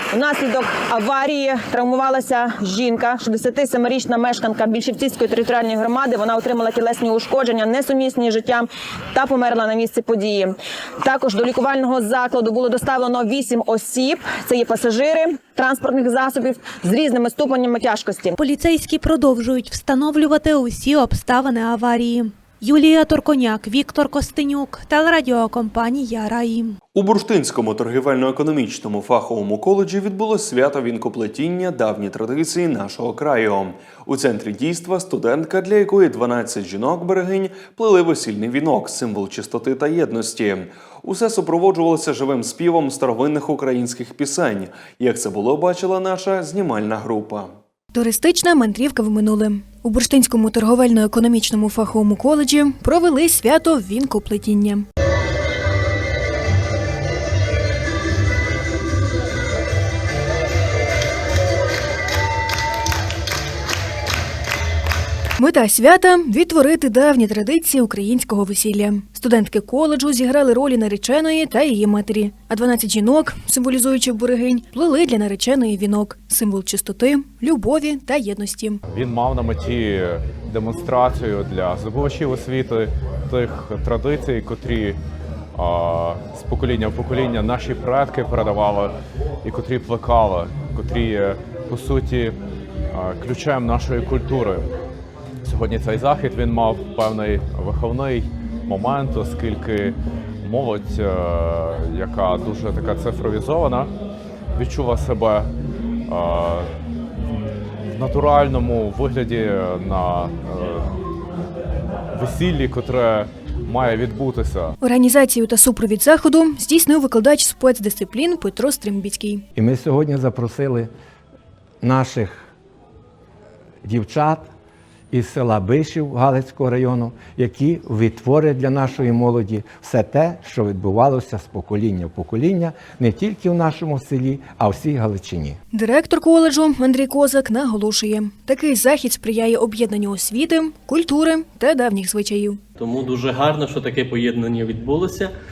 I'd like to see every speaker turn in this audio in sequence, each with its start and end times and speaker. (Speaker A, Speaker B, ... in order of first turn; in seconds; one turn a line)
Speaker A: 0.1-18.3
Speaker B: 18.4-26.8
Speaker C: 26.9-47.5
Speaker D: 47.9-54.9
Speaker D: 65.4-78.8
Speaker E: 78.9-85.0
Speaker E: 85.5-92.4
Speaker E: 92.9-94.7
Speaker E: 95.4-103.9
Speaker E: 104.5-105.5
Speaker E: 106.1-106.7
Speaker E: 107.8-110.9
Speaker E: 112.1-114.7
Speaker D: 114.8-119.4
Speaker F: 119.5-120.9
Speaker F: 121.8-122.5
Speaker F: 123.8-124.5
Speaker F: 125.1-135.6
Speaker D: 135.7-142.6
Speaker G: 142.8-145.3